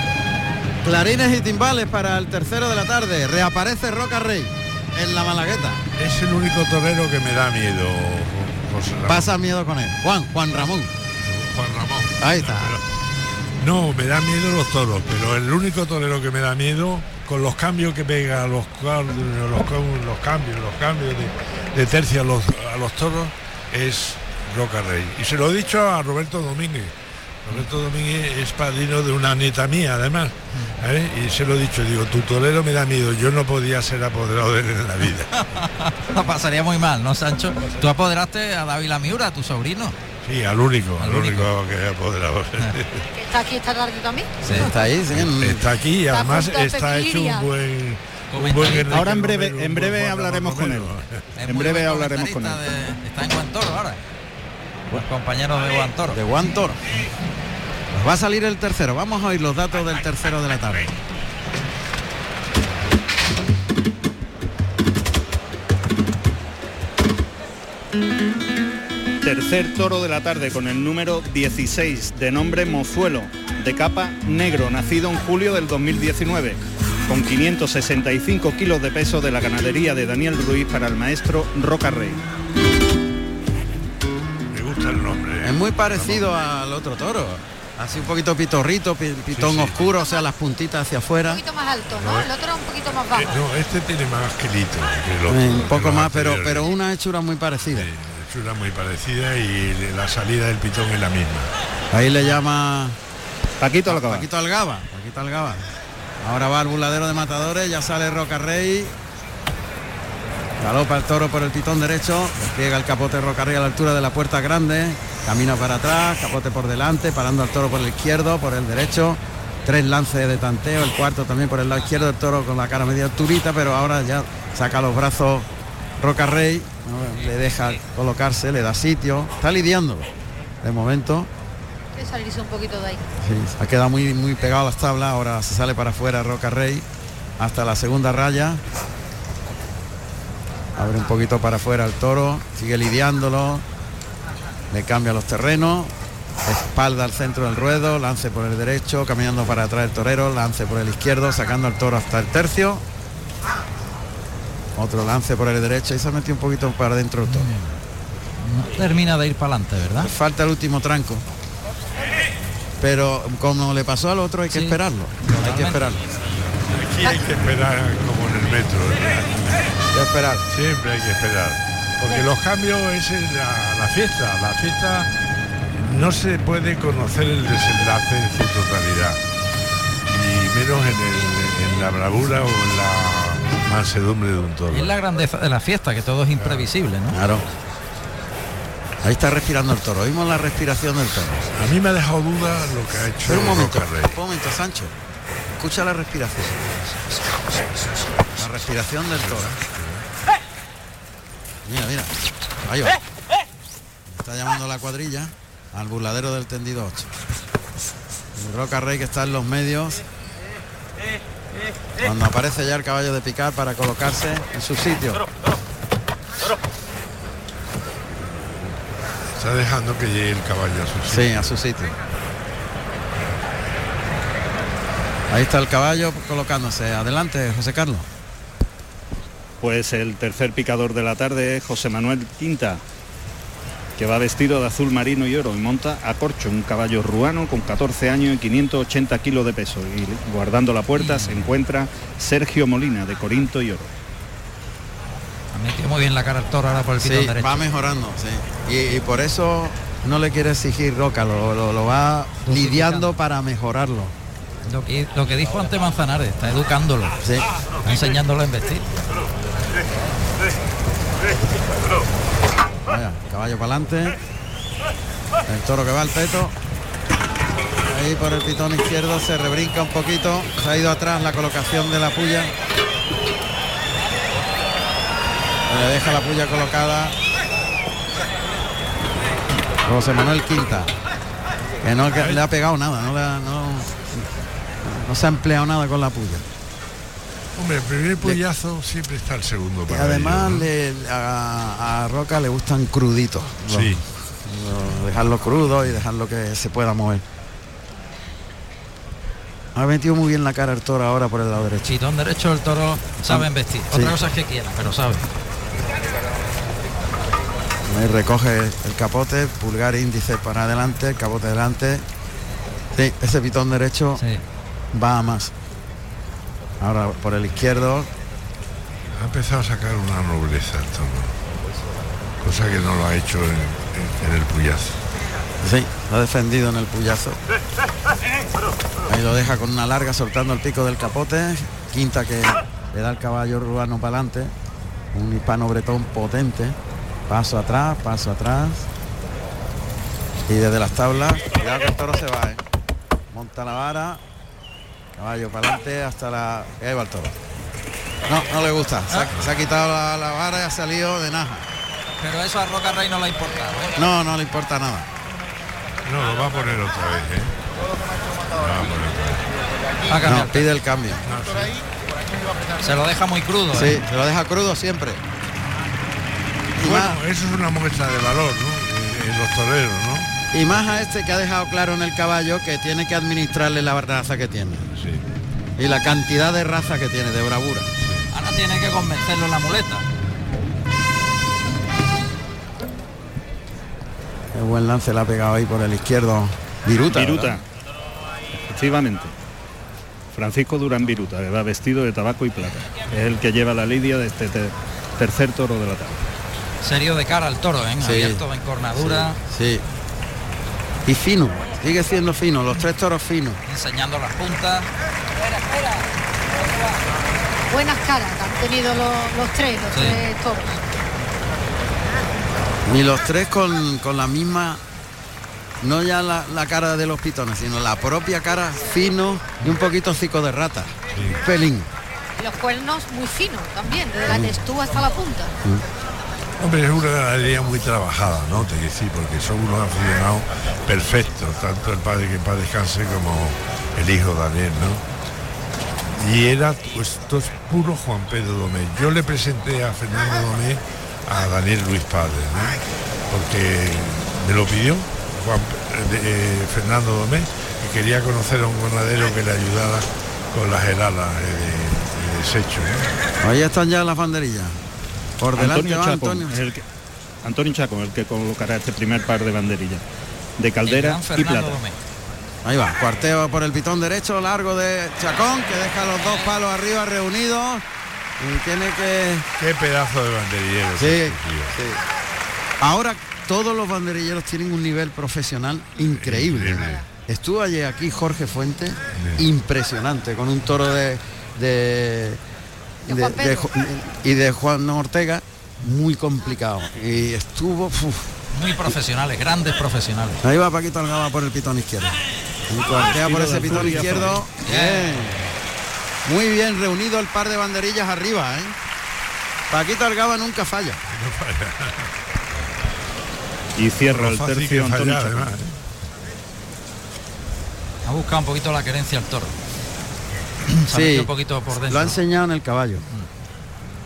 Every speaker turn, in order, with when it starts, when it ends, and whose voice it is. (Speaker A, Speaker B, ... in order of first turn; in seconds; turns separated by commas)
Speaker A: 0.8-5.8, Speaker B: 6.0-9.3, Speaker A: 9.1-10.9, Speaker B: 11.2-12.8, Speaker A: 12.2-12.8, Speaker B: 13.6-26.9, Speaker B: 27.4-35.4, Speaker C: 35.3-40.0, Speaker B: 37.6-37.9, Speaker B: 40.2-43.0, Speaker C: 41.0-41.5, Speaker D: 43.1-44.9, Speaker C: 44.4-44.7, Speaker A: 44.5-45.7, Speaker B: 45.1-51.1, Speaker D: 46.1-47.5, Speaker C: 48.3-49.1, Speaker E: 48.9-50.9, Speaker C: 51.4-54.0, Speaker E: 51.5-52.6, Speaker C: 54.9-56.2, Speaker A: 56.1-56.8, Speaker A: 57.9-61.0, Speaker E: 69.2-82.2, Speaker B: 84.5-86.3, Speaker A: 85.4-91.4, Speaker B: 89.3-89.9, Speaker D: 91.3-93.4, Speaker B: 91.9-92.3, Speaker B: 93.1-96.7, Speaker A: 95.3-97.9, Speaker B: 97.7-101.5, Speaker A: 101.9-103.0, Speaker E: 103.6-104.3, Speaker A: 103.9-105.6, Speaker A: 106.2-108.9, Speaker A: 110.6-125.5, Speaker A: 126.0-130.1, Speaker A: 130.6-131.3, Speaker D: 131.9-133.0, Speaker A: 133.2-136.9, Speaker A: 137.4-138.6, Speaker A: 140.8-143.6, Speaker A: 144.7-145.9, Speaker A: 146.4-152.8, Speaker A: 154.8-157.5, Speaker C: 157.2-157.7, Speaker C: 158.4-160.1, Speaker A: 160.0-161.2, Speaker A: 162.8-166.0, Speaker C: 164.5-165.9, Speaker B: 166.7-169.6, Speaker A: 169.9-170.4, Speaker B: 170.5-175.1, Speaker B: 175.8-179.2, Speaker B: 180.1-184.9, Speaker C: 184.7-187.2, Speaker B: 186.3-186.7, Speaker A: 187.1-187.4, Speaker A: 189.0-191.5, Speaker B: 191.6-194.1, Speaker A: 193.2-194.9, Speaker A: 195.6-196.8, Speaker A: 198.4-199.5, Speaker B: 199.1-200.1, Speaker A: 201.7-202.1, Speaker A: 202.7-203.0, Speaker A: 204.1-207.1, Speaker A: 208.3-210.0, Speaker A: 212.0-215.2, Speaker B: 219.4-221.5, Speaker A: 221.1-222.0, Speaker A: 225.3-228.1, Speaker E: 229.6-232.8, Speaker E: 234.0-243.9, Speaker C: 240.9-241.5, Speaker C: 245.5-247.6, Speaker A: 247.0-254.1, Speaker C: 252.4-253.2, Speaker C: 254.7-257.2, Speaker A: 257.2-257.5, Speaker C: 257.8-258.9, Speaker A: 262.9-264.2, Speaker A: 265.5-266.6, Speaker A: 267.9-272.5, Speaker A: 275.7-277.2, Speaker A: 279.9-280.9, Speaker A: 281.8-284.3, Speaker B: 282.1-282.4, Speaker A: 284.8-286.5, Speaker B: 287.6-290.7, Speaker A: 289.9-297.2, Speaker B: 293.6-294.1, Speaker A: 299.8-301.9, Speaker C: 301.9-305.3, Speaker A: 303.2-304.1, Speaker A: 307.9-312.1, Speaker A: 312.9-314.2, Speaker C: 314.2-314.4, Speaker A: 314.9-315.5, Speaker A: 316.8-318.1, Speaker B: 319.2-321.4, Speaker B: 322.4-325.0, Speaker A: 325.6-327.4, Speaker A: 329.1-334.5, Speaker A: 335.1-336.8, Speaker A: 337.3-338.9, Speaker A: 340.5-342.6, Speaker A: 343.3-344.2, Speaker A: 345.1-347.4, Speaker A: 348.3-351.7, Speaker C: 352.2-353.9, Speaker A: 353.9-355.1, Speaker B: 356.1-357.5, Speaker B: 358.5-359.4, Speaker C: 360.1-360.7, Speaker A: 360.2-361.2, Speaker B: 361.2-361.8, Speaker C: 362.8-364.0, Speaker A: 363.7-365.2, Speaker A: 366.8-367.2, Speaker B: 366.8-370.3, Speaker A: 370.5-374.9, Speaker B: 374.9-375.2, Speaker A: 375.8-377.9, Speaker B: 378.0-378.3, Speaker C: 378.3-380.1, Speaker A: 384.5-387.6, Speaker E: 387.1-387.6, Speaker E: 388.6-389.3, Speaker E: 390.3-396.2, Speaker C: 396.8-399.4, Speaker A: 398.0-398.4, Speaker A: 398.9-399.9, Speaker A: 401.1-403.6, Speaker C: 403.7-404.9, Speaker D: 407.7-410.8, Speaker C: 409.9-410.2, Speaker A: 412.9-414.8, Speaker A: 415.8-421.9, Speaker B: 421.1-421.4, Speaker D: 422.4-425.5, Speaker A: 424.2-424.6, Speaker B: 426.6-435.0, Speaker B: 436.1-453.1, Speaker A: 453.4-454.8, Speaker A: 455.4-456.6, Speaker E: 455.6-456.8, Speaker E: 457.4-460.0, Speaker E: 460.6-461.8, Speaker C: 460.9-462.0, Speaker A: 462.6-467.8, Speaker C: 466.2-466.5, Speaker A: 468.4-469.5, Speaker B: 469.6-471.7, Speaker A: 471.0-472.0, Speaker A: 472.8-482.4, Speaker B: 476.2-477.0, Speaker B: 479.2-479.4, Speaker A: 483.0-488.3, Speaker D: 483.1-483.7, Speaker C: 488.5-490.4, Speaker A: 490.4-492.2, Speaker A: 492.7-495.5, Speaker B: 492.9-494.4, Speaker E: 493.6-494.2, Speaker C: 494.6-495.3, Speaker A: 496.2-498.8, Speaker A: 499.7-501.0, Speaker B: 501.1-502.1, Speaker E: 503.8-505.5, Speaker B: 504.1-505.8, Speaker C: 508.1-509.6, Speaker C: 510.7-512.2, Speaker A: 510.9-513.0